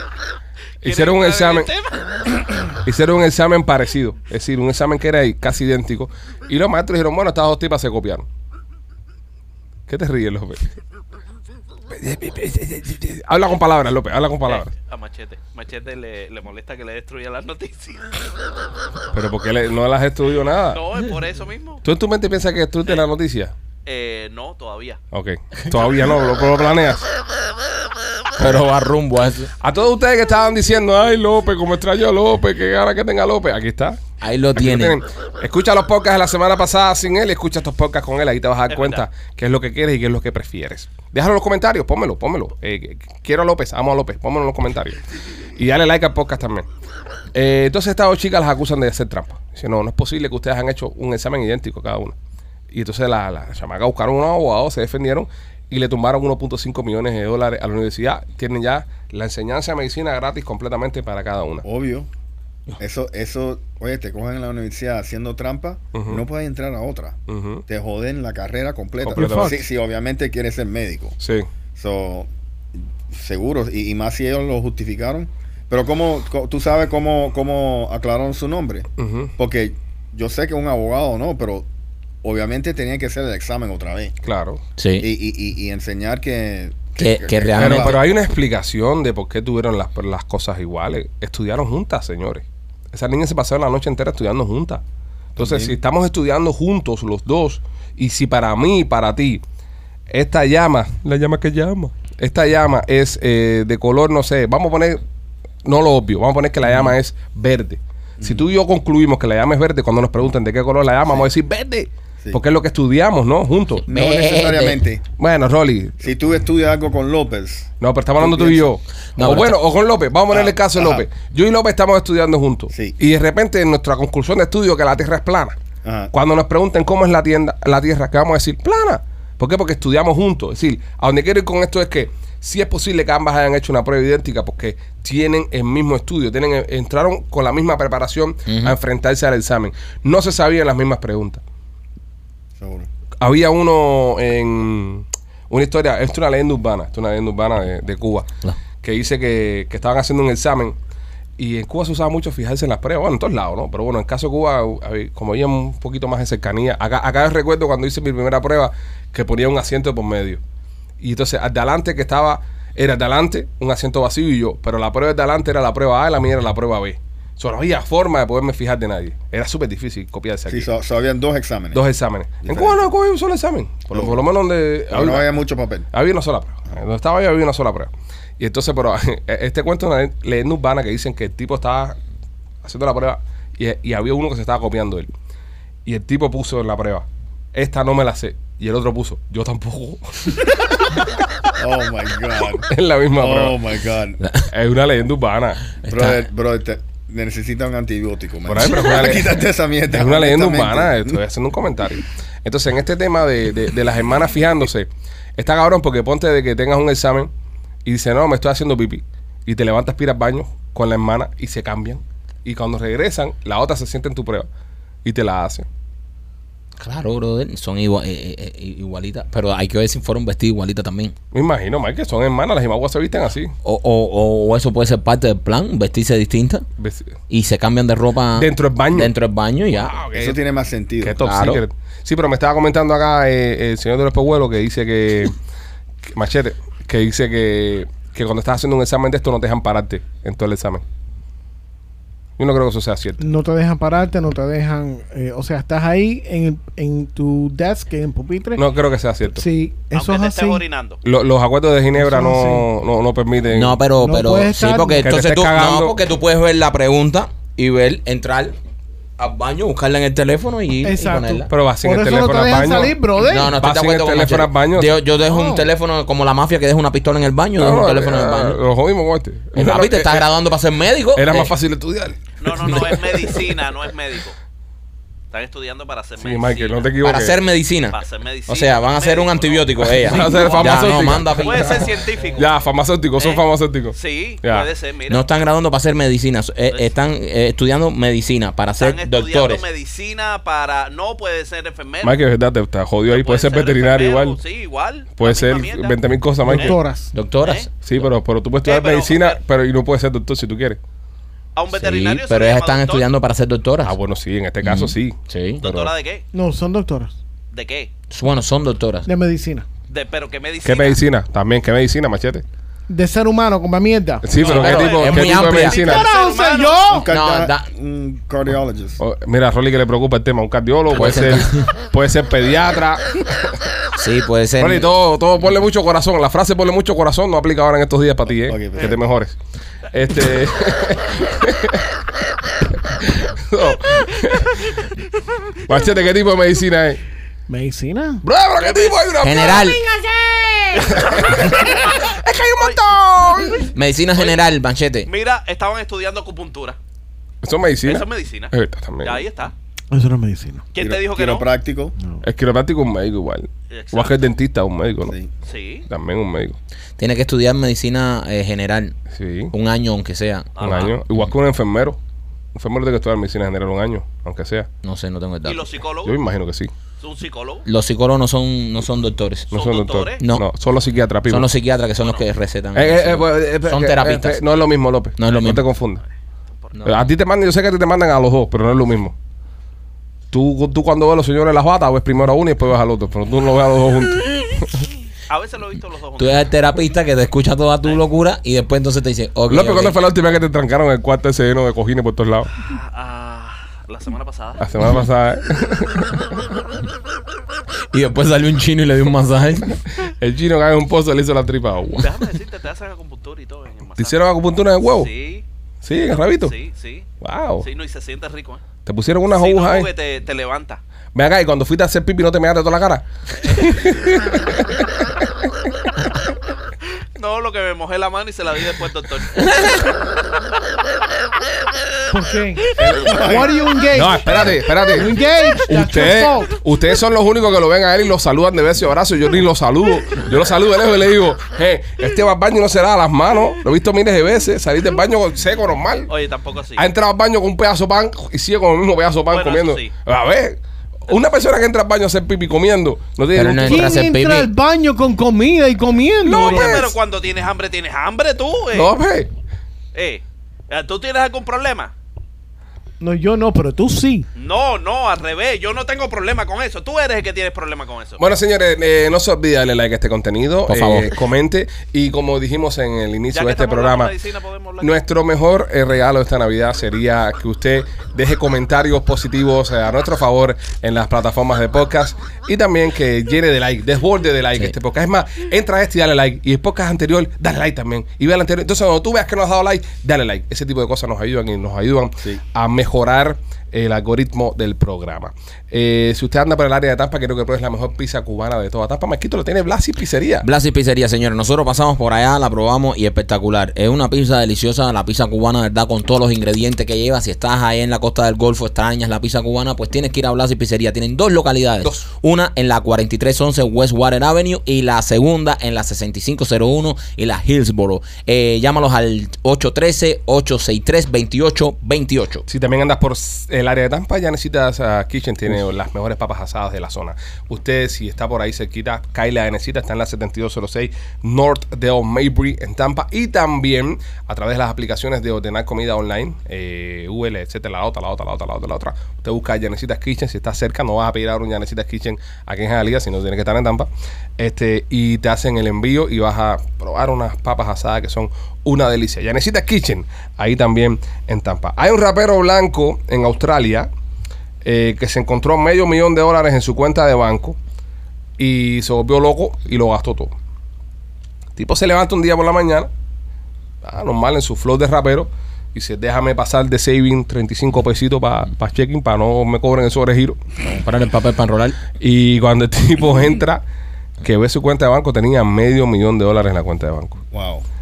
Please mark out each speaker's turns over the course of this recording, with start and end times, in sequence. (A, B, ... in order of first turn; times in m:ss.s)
0:00.8-0:01.7 A
0:00.8-0:02.3 B
0:02.8-0:08.2 A
0:09.9-0:10.7 A
0:11.9-0:14.7 A
0:14.5-0:18.3 B
0:19.1-0:20.8 A
0:20.7-0:21.8 B
0:21.8-0:23.5 A
0:23.8-0:25.0 B
0:25.1-0:27.1 A
0:28.4-0:29.5 C
0:29.6-0:34.0 A
0:34.2-0:35.0 C
0:34.6-0:45.0 A
0:38.7-0:39.0 B
0:45.6-0:46.7 A
0:47.3-0:52.1 A
0:52.7-1:01.6 A
1:01.6-1:02.1 D
1:02.8-1:11.2 D
1:05.9-1:06.2 A
1:07.3-1:07.6 A
1:09.0-1:09.5 A
1:09.1-1:09.6 E
1:11.2-1:11.5 A
1:11.7-1:12.3 D
1:13.1-1:21.7 D
1:19.0-1:19.3 A
1:22.2-1:24.2 D
1:24.2-1:24.6 A
1:24.8-1:25.1 C
1:25.0-1:28.0 D
1:27.0-1:28.0 C
1:27.6-1:34.8 A
1:35.4-1:35.8 D
1:35.4-1:39.4 A
1:40.1-1:45.0 A
1:45.6-1:53.8 A
1:48.2-1:48.5 D
1:53.8-1:54.8 C
1:53.8-1:55.0 D
1:55.2-1:56.0 A
1:56.0-1:58.7 D
1:57.8-2:05.6 A
1:59.2-1:59.6 C
2:00.3-2:01.0 D
2:05.8-2:06.1 D
2:06.1-2:21.4 A
2:18.5-2:18.7 C
2:22.6-2:22.9 D
2:23.2-2:28.3 A
2:28.8-2:30.8 A
2:31.4-2:40.4 A
2:41.0-2:50.7 A
2:50.5-2:51.9 D
2:51.7-2:55.3 A
2:52.4-2:52.9 D
2:53.9-2:54.3 D
2:54.9-2:55.9 D
2:55.9-3:02.0 A
3:02.6-3:05.1 A
3:05.8-3:10.4 A
3:11.6-3:14.2 D
3:12.5-3:13.6 A
3:14.2-3:14.5 C
3:14.5-3:15.6 A
3:15.8-3:16.3 C
3:15.8-3:21.2 D
3:18.5-3:27.3 A
3:27.8-3:34.5 A
3:35.0-3:35.6 A
3:36.8-3:41.1 C
3:41.3-3:43.5 A
3:43.6-3:46.6 C
3:46.8-3:47.1 A
3:47.3-3:50.0 C
3:48.4-3:49.1 A
3:49.7-3:50.4 A
3:50.1-3:51.2 D
3:51.0-3:55.3 A
3:51.2-3:51.6 C
3:56.1-4:00.8 A
4:02.4-4:03.3 A
4:03.2-4:08.6 E
4:08.6-4:09.4 A
4:09.3-4:10.6 E
4:09.9-4:11.0 B
4:11.0-4:13.8 A
4:12.0-4:12.6 E
4:13.5-4:18.6 C
4:14.0-4:15.1 E
4:15.0-4:16.0 A
4:19.2-4:21.5 C
4:20.8-4:23.6 E
4:21.5-4:25.6 A
4:23.2-4:28.6 C
4:27.6-4:30.3 A
4:29.5-4:31.5 C
4:31.1-4:33.5 A
4:32.4-4:34.3 B
4:35.3-4:36.9 B
4:36.2-4:37.4 A
4:37.0-4:41.9 C
4:37.9-4:42.5 B
4:39.8-4:44.7 A
4:43.2-4:45.2 B
4:45.1-4:49.6 C
4:48.8-4:52.2 B
4:52.0-4:54.4 A
4:53.1-4:56.0 B
4:55.2-4:56.8 A
4:56.4-4:57.1 E
4:56.5-4:56.8 B
4:57.1-4:57.7 C
4:57.4-4:57.7 B
4:57.8-5:00.8 A
4:58.6-4:59.4 B
5:01.6-5:03.0 B
5:01.7-5:04.0 C
5:03.8-5:05.9 A
5:04.6-5:05.6 C
5:05.6-5:06.2 B
5:06.3-5:07.2 E
5:07.5-5:07.9 B
5:08.1-5:09.1 C
5:09.1-5:09.6 E
5:09.9-5:11.0 B
5:10.6-5:12.4 A
5:12.9-5:14.2 E
5:14.2-5:16.0 A
5:14.3-5:16.9 B
5:14.4-5:15.8 C
5:15.6-5:17.1 E
5:16.9-5:19.0 D
5:17.1-5:17.7 C
5:19.0-5:23.5 A
5:20.9-5:21.7 C
5:24.0-5:24.9 C
5:24.6-5:29.4 A
5:28.3-5:29.1 D
5:29.9-5:31.9 A
5:32.9-5:34.8 A
5:35.6-5:37.0 A
5:37.5-5:38.2 E
5:38.2-5:39.6 A
5:38.6-5:39.1 B
5:39.2-5:39.8 C
5:39.4-5:41.0 E
5:40.7-5:42.1 B
5:40.9-5:43.7 A
5:42.6-5:42.9 B
5:43.7-5:45.1 C
5:45.1-5:46.8 B
5:47.4-5:49.2 A
5:47.8-5:49.5 B
5:49.9-5:50.6 E
5:50.7-5:51.4 B
5:50.8-5:52.0 D
5:52.2-5:55.1 A
5:53.7-5:54.2 B
5:55.4-5:55.8 B
5:55.9-5:56.6 A
5:57.0-5:59.0 C
5:59.1-5:59.5 A
5:59.5-6:01.3 C
6:00.6-6:00.9 B
6:00.6-6:02.0 A
6:02.5-6:04.7 A
6:04.8-6:05.8 C
6:05.4-6:06.2 B
6:06.0-6:06.7 A
6:07.0-6:07.6 B
6:07.6-6:09.5 C
6:09.5-6:10.2 B
6:09.5-6:11.5 A
6:10.2-6:10.4 C
6:11.3-6:14.4 C
6:12.7-6:16.0 A
6:15.2-6:15.6 C
6:16.8-6:19.1 A
6:20.3-6:24.8 A
6:25.3-6:26.5 B
6:26.2-6:30.0 C
6:29.5-6:32.5 A
6:32.6-6:34.6 B
6:34.6-6:36.2 A
6:37.9-6:39.8 C
6:40.0-6:42.1 A
6:42.0-6:44.2 B
6:44.0-6:45.1 A
6:44.8-6:45.4 B
6:45.8-6:46.5 A
6:46.1-6:47.1 B
6:47.2-6:47.6 A
6:47.6-6:48.6 B
6:48.8-6:49.9 A
6:49.3-6:50.8 B
6:51.1-6:55.0 A
6:53.4-6:53.9 B
6:57.2-7:00.0 B
7:02.1-7:06.6 E
7:02.8-7:03.6 D
7:03.9-7:05.1 A
7:05.6-7:16.1 A
7:16.1-7:16.9 B
7:16.8-7:24.0 A
7:19.3-7:19.9 B
7:23.3-7:24.5 C
7:23.6-7:26.9 E
7:26.2-7:26.9 A
7:26.3-7:28.9 B
7:28.7-7:29.3 A
7:29.9-7:31.9 B
7:33.0-7:34.2 E
7:34.4-7:38.2 B
7:38.2-7:44.1 A
7:40.7-7:41.1 C
7:43.3-7:45.0 B
7:44.8-8:10.5 A
8:10.4-8:32.4 C
8:32.5-9:03.9 A
9:04.6-9:07.6 A
9:08.4-9:10.3 A
9:11.6-9:12.9 A
9:13.8-9:20.4 A
9:20.6-9:21.8 C
9:22.0-9:23.6 A
9:24.2-9:27.2 A
9:27.3-9:27.6 D